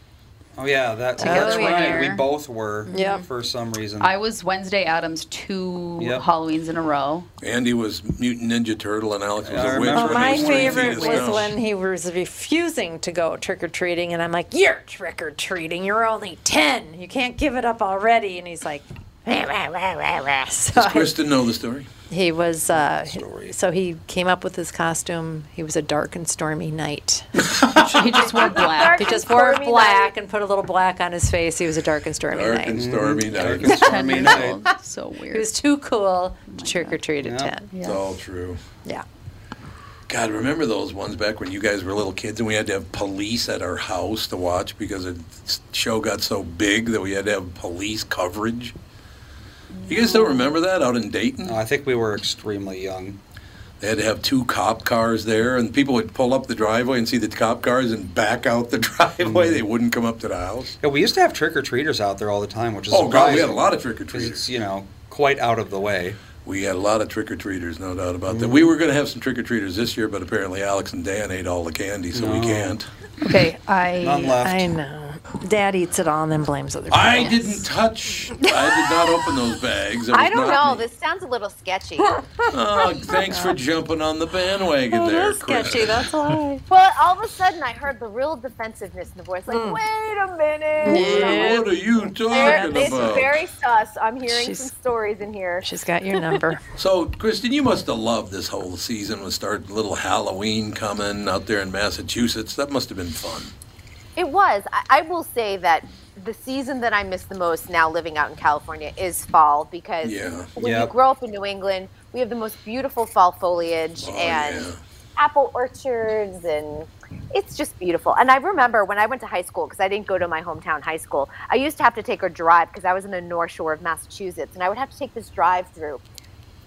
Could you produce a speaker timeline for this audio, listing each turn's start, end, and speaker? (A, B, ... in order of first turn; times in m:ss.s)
0:00.6-0:04.1 A
0:01.2-0:02.2 B
0:01.2-0:02.2 C
0:02.9-0:03.2 B
0:02.9-0:03.2 C
0:04.0-0:07.3 C
0:06.0-0:06.3 A
0:07.4-0:11.6 D
0:09.4-0:11.5 A
0:09.8-0:21.2 B
0:20.7-0:21.9 D
0:22.1-0:27.5 B
0:22.7-0:23.6 A
0:27.6-0:29.2 C
0:28.0-0:32.9 B
0:28.2-0:30.1 E
0:32.3-0:34.4 D
0:32.7-0:34.6 A
0:33.7-0:35.6 C
0:35.3-0:37.7 B
0:36.5-0:37.0 C
0:37.2-0:37.6 A
0:37.7-0:38.0 C
0:37.8-0:38.6 D
0:40.1-0:48.8 D
0:49.9-0:51.6 D
0:49.9-0:50.5 C
0:51.4-0:53.2 A
0:53.8-1:00.8 D
0:59.2-0:59.6 A
1:00.8-1:06.2 A
1:02.9-1:04.5 D
1:06.4-1:12.9 D
1:08.3-1:08.7 A
1:12.1-1:12.8 A
1:13.2-1:17.6 B
1:13.3-1:13.6 C
1:14.0-1:14.7 A
1:16.9-1:20.9 D
1:18.4-1:19.1 B
1:20.1-1:22.2 E
1:22.0-1:23.6 B
1:22.5-1:26.1 D
1:24.9-1:26.7 B
1:26.7-1:31.7 E
1:29.5-1:29.8 B
1:30.8-1:31.8 B
1:30.9-1:33.4 D
1:32.2-1:36.4 E
1:32.3-1:33.0 B
1:34.3-1:34.7 B
1:35.6-1:36.6 B
1:36.8-1:43.5 D
1:44.2-2:06.0 E
1:50.0-1:50.5 D
1:50.6-1:50.9 A
1:54.0-1:54.8 D